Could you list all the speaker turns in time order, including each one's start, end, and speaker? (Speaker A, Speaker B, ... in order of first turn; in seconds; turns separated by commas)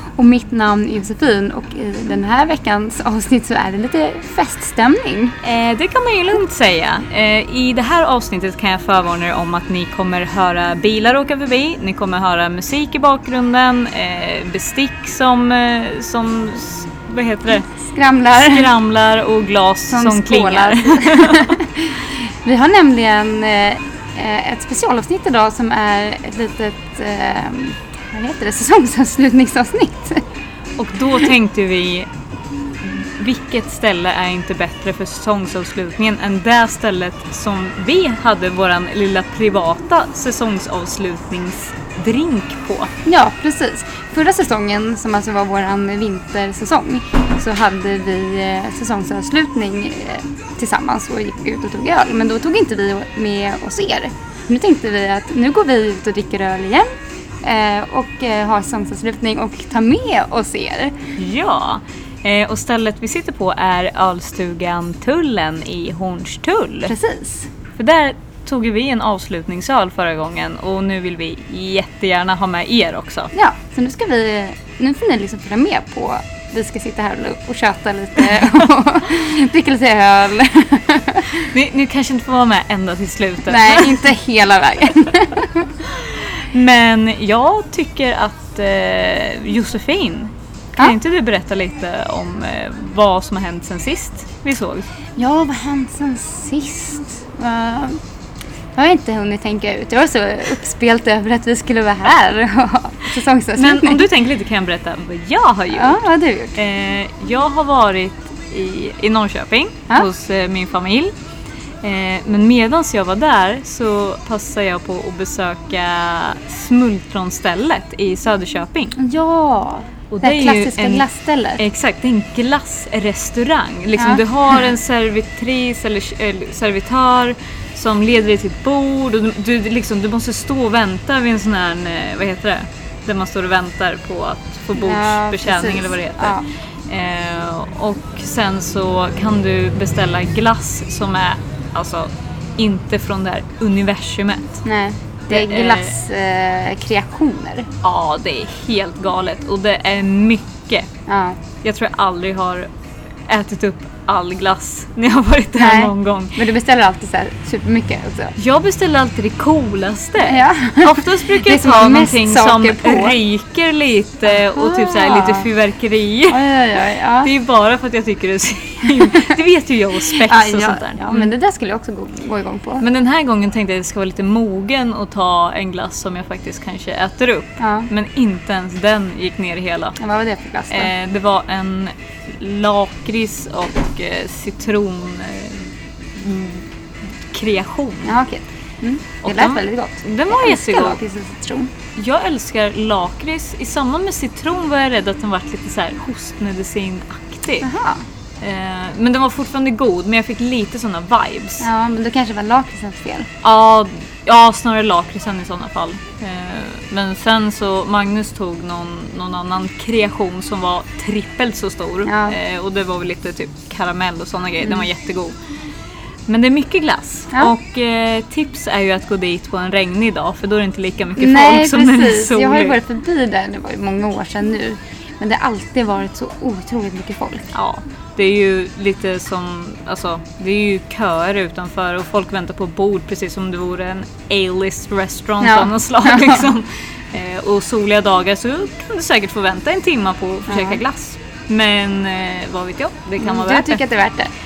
Speaker A: 0.2-5.4, Speaker B: 5.4-17.7, Speaker A: 17.6-18.7, Speaker B: 18.4-21.6, Speaker A: 19.9-30.2, Speaker B: 30.8-32.1, Speaker B: 32.8-42.9, Speaker A: 43.1-56.9, Speaker A: 57.4-61.0, Speaker B: 61.2-67.0, Speaker A: 66.9-67.5, Speaker B: 67.8-73.3, Speaker A: 73.3-81.5, Speaker B: 81.4-84.1, Speaker A: 83.5-85.7, Speaker B: 85.8-94.9, Speaker A: 95.2-98.0, Speaker A: 98.8-104.1, Speaker B: 103.5-106.0, Speaker A: 105.7-106.6, Speaker B: 106.6-111.1, Speaker B: 111.8-119.0, Speaker A: 119.0-121.6, Speaker B: 120.1-121.0, Speaker B: 121.6-144.6, Speaker A: 124.0-124.7, Speaker A: 134.8-136.4, Speaker A: 144.7-147.7, Speaker B: 145.3-145.9, Speaker B: 147.8-150.9, Speaker A: 151.1-151.4, Speaker B: 151.6-152.7, Speaker B: 153.3-156.4, Speaker A: 155.6-158.3, Speaker B: 158.3-166.4, Speaker A: 160.2-163.2, Speaker A: 164.3-165.5, Speaker A: 166.3-167.3, Speaker B: 167.2-171.3, Speaker A: 168.9-169.3, Speaker A: 170.1-172.8, Speaker B: 172.8-180.0, Speaker A: 177.6-177.9, Speaker A: 180.0-180.9, Speaker B: 180.7-186.7, Speaker B: 187.3-188.2, Speaker A: 188.0-191.7, Speaker B: 189.2-191.0, Speaker B: 192.0-197.7, Speaker A: 197.6-198.0, Speaker B: 198.4-201.7, Speaker A: 201.6-203.3, Speaker B: 203.4-215.3, Speaker A: 212.1-212.3, Speaker A: 214.6-214.9, Speaker B: 216.3-222.8, Speaker A: 221.2-227.5, Speaker B: 227.5-243.8, Speaker A: 235.4-236.5, Speaker A: 240.5-240.8, Speaker A: 243.2-244.3